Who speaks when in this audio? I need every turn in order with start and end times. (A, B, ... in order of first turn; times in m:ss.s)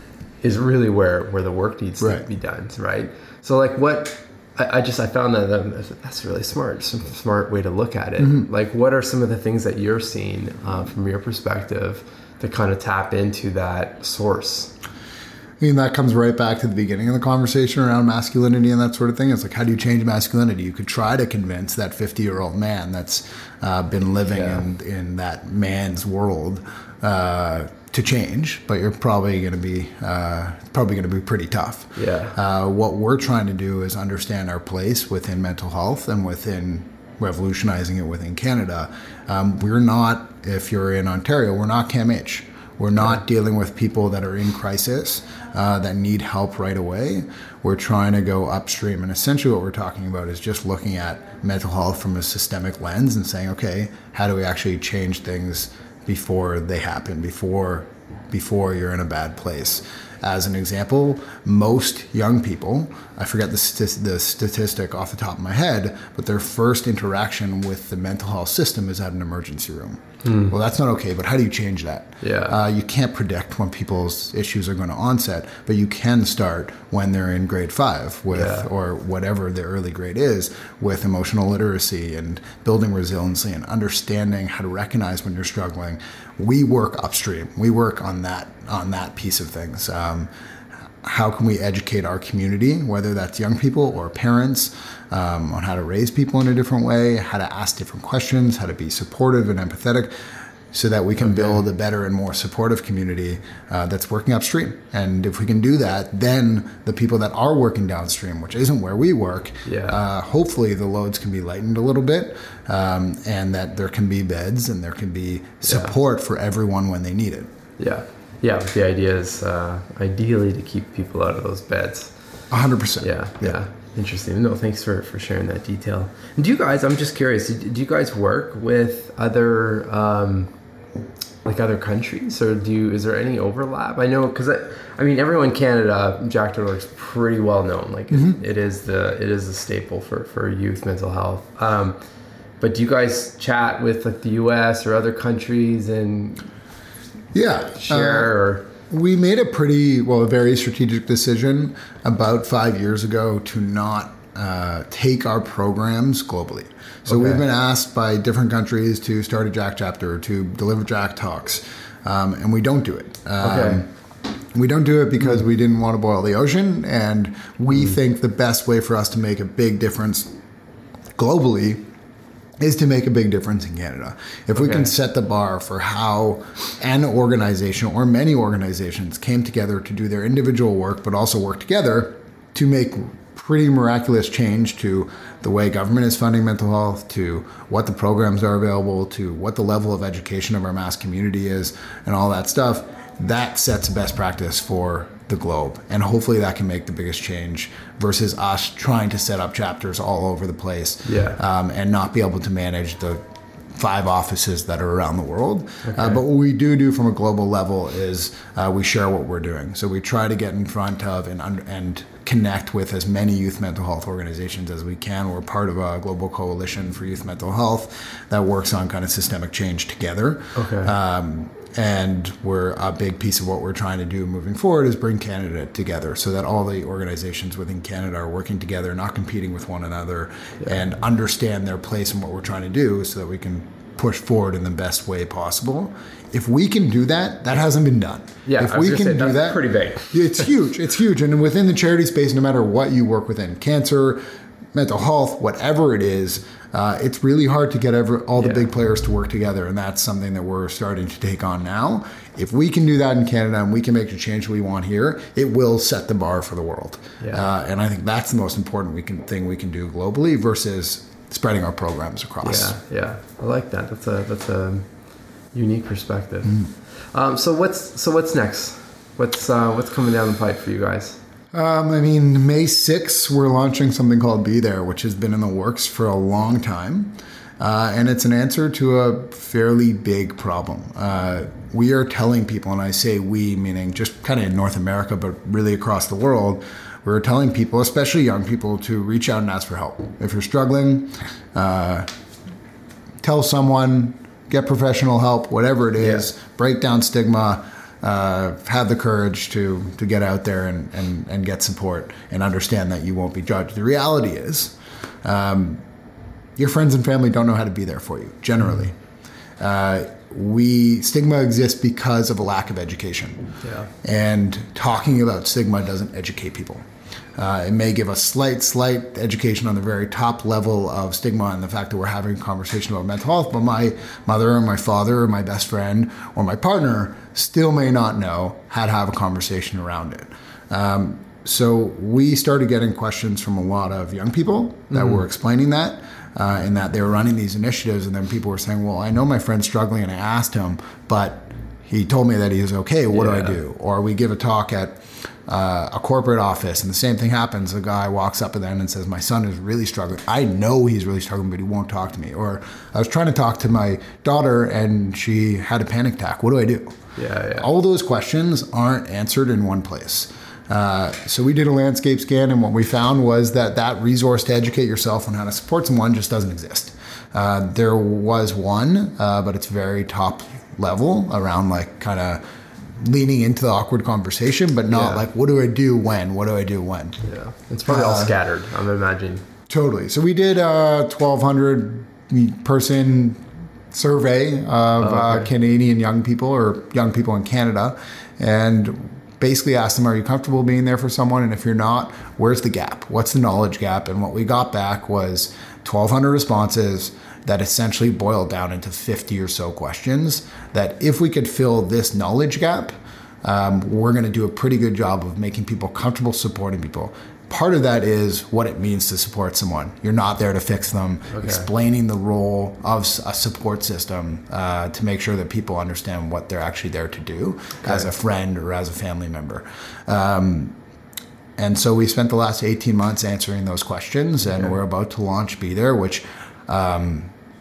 0:00.4-0:14.7 A
0:02.0-0:02.2 B
0:08.2-0:08.5 B
0:15.6-1:30.3 B
0:24.3-0:24.6 A
0:32.0-0:32.4 A
1:10.2-1:10.5 A
1:12.2-1:12.6 A
1:18.3-1:18.7 A
1:31.0-1:40.1 B
1:40.7-1:57.5 B
1:41.2-1:41.6 A
1:49.6-1:50.0 A
1:55.6-1:56.0 A
1:57.8-2:02.1 A
2:02.5-2:03.6 B
2:03.0-2:10.5 A
2:11.4-2:22.0 A
2:18.1-2:18.4 B
2:22.6-2:26.5 A
2:27.3-2:28.3 B
2:27.7-2:28.7 A
2:28.9-2:43.9 B
2:37.1-2:37.4 A
2:43.4-2:43.8 A
2:44.5-2:50.3 B
2:51.2-2:51.8 B
2:52.6-3:23.2 B
2:54.6-2:54.9 A
3:21.0-3:21.4 A
3:23.7-4:04.2 B
3:25.8-3:26.2 A
3:40.5-3:40.9 A
3:58.4-4:00.5 A
4:04.7-4:22.7 B
4:08.4-4:08.6 A
4:17.2-4:17.5 A
4:22.4-4:24.9 A
4:25.5-4:31.2 A
4:31.5-4:52.1 B
4:53.2-5:05.8 B
4:56.0-4:56.3 A
5:06.6-5:08.9 B
5:09.6-5:16.8 B
5:13.6-5:13.9 A
5:17.4-5:57.0 B
5:34.9-5:35.2 A
5:43.1-5:43.6 A
5:57.2-5:57.7 A
5:57.5-6:12.4 B
6:13.0-6:17.2 B
6:14.9-6:15.2 A
6:17.2-6:19.4 A
6:17.8-6:18.3 B
6:19.7-7:00.7 B
6:25.0-6:25.5 A
6:51.3-6:51.7 A
7:01.6-7:07.3 B